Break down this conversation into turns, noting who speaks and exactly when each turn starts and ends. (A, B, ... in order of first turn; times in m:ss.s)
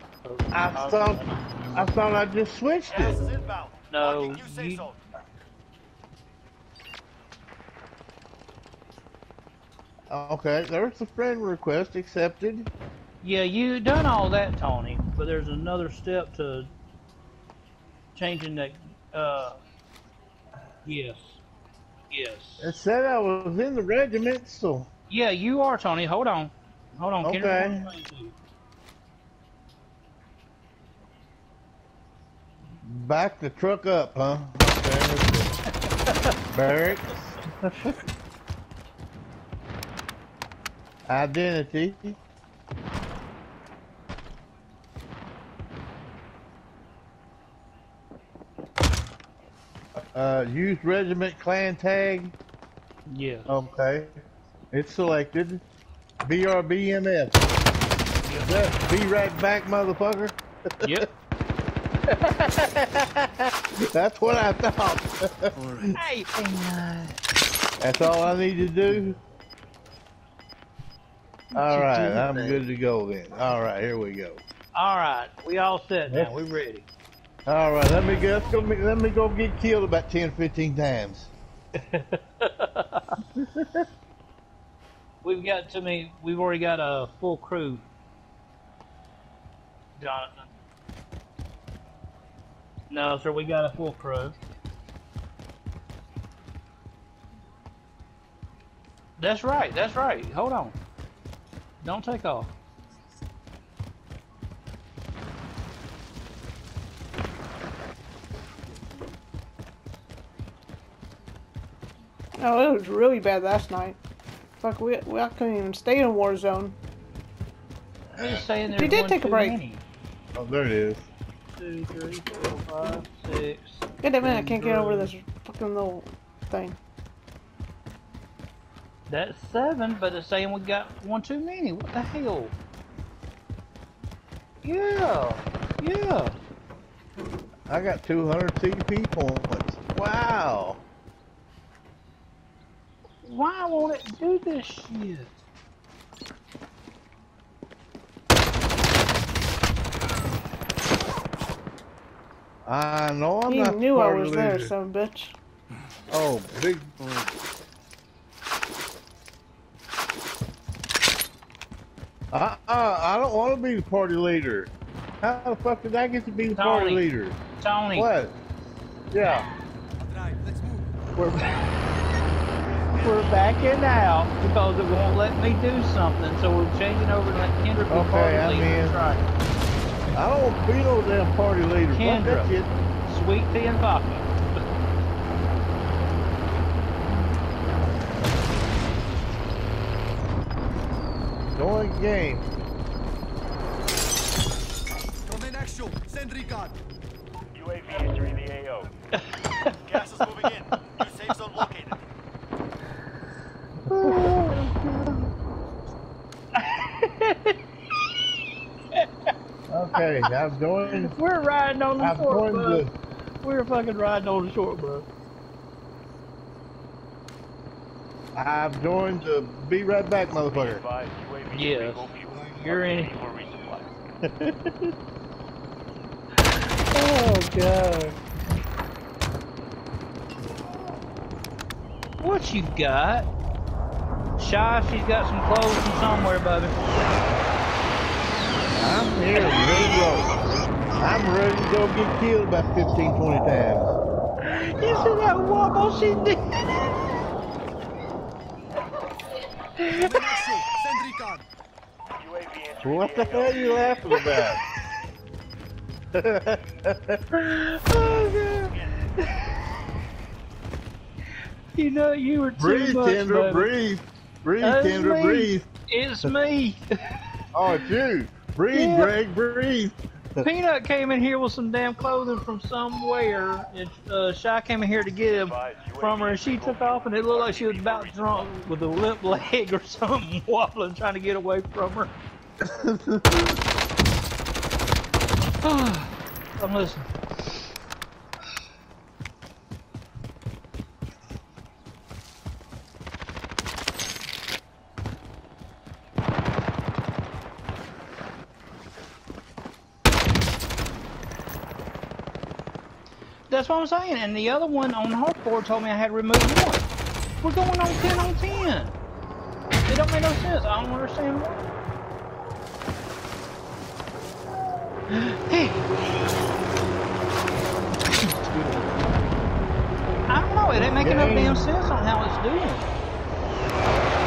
0:00.2-0:01.9 A
0:00.5-0:01.2 B
0:01.8-0:03.2 B
0:02.9-0:05.0 C
0:03.9-0:04.9 A
0:10.1-0:12.7 B
0:13.2-0:16.7 A
0:18.2-0:19.6 A
0:20.8-0:21.4 A
0:22.1-0:22.7 A
0:22.6-0:24.9 B
0:25.1-0:28.4 A
0:27.2-0:27.9 B
0:32.8-0:35.6 B
0:36.1-0:36.4 A
0:36.5-0:37.9 B
0:41.1-0:42.2 B
0:50.0-0:52.4 B
0:53.1-0:53.5 A
0:53.5-0:55.6 B
0:56.2-0:57.4 B
0:58.2-0:58.5 A
0:58.4-1:01.0 B
1:00.8-1:01.1 A
1:02.2-1:06.0 B
1:06.0-1:07.2 A
1:07.8-1:09.2 B
1:11.5-1:12.6 A
1:11.5-1:14.4 B
1:14.7-1:16.9 A
1:16.1-1:16.4 B
1:17.5-1:21.3 B
1:21.8-1:23.2 A
1:23.4-1:23.8 B
1:25.2-1:27.8 A
1:30.0-1:30.5 A
1:32.9-1:34.4 A
1:39.2-1:40.8 A
1:41.8-1:42.5 A
1:52.4-1:54.0 D
1:54.6-1:56.8 D
1:58.1-1:59.8 A
1:58.2-1:58.4 B
1:58.7-1:59.6 D
2:00.3-2:01.1 B
2:01.6-2:05.1 A
2:04.0-2:06.8 D
2:09.1-2:12.6 A
2:14.6-2:16.4 A
2:17.7-2:20.8 B
2:23.2-2:25.3 A
2:32.6-2:34.7 B
2:33.5-2:35.3 D
2:36.1-2:37.0 B
2:42.3-2:47.4 B
2:46.6-2:47.1 A
2:47.6-2:48.1 A
2:47.9-2:48.4 B
2:49.1-2:49.4 B
2:50.0-2:51.0 E
2:52.9-2:53.9 C
2:53.0-2:59.2 A
2:57.9-2:59.0 B
3:00.1-3:02.7 B
3:01.9-3:02.5 A
3:03.0-3:04.6 A
3:11.6-3:12.4 B
3:15.2-3:16.8 E
3:17.5-3:18.9 C
3:19.1-3:19.8 A
3:19.8-3:22.0 C
3:23.9-3:24.8 B
3:23.9-3:25.1 A
3:26.5-3:27.6 A
3:29.7-3:31.1 B
3:30.9-3:32.9 A
3:32.0-3:32.9 B
3:33.4-3:35.1 A
3:38.4-3:40.8 B
3:40.5-3:43.9 C
3:41.5-3:43.1 A
3:44.2-3:44.9 B
3:46.9-3:48.2 B
3:52.2-3:53.3 A
3:54.4-3:56.8 A
3:58.7-4:00.3 B
4:01.0-4:03.9 B
4:04.4-4:06.6 A
4:09.8-4:10.2 A
4:09.9-4:11.4 E
4:12.2-4:13.8 C
4:12.8-4:14.6 B
4:16.1-4:17.4 B
4:17.4-4:19.4 A
4:18.6-4:19.0 C
4:21.7-4:23.7 A
4:22.6-4:25.7 B
4:24.6-4:26.8 A
4:27.5-4:30.4 B
4:28.7-4:29.1 A
4:30.4-4:42.1 A
4:35.3-4:38.5 C
4:42.6-4:43.6 B
4:45.6-4:47.1 A
5:03.5-5:06.9 A
5:07.4-5:08.9 A
5:09.9-5:11.6 A
5:15.1-5:16.3 A
5:18.1-5:18.9 A
5:20.3-5:22.9 A
5:20.9-5:21.6 B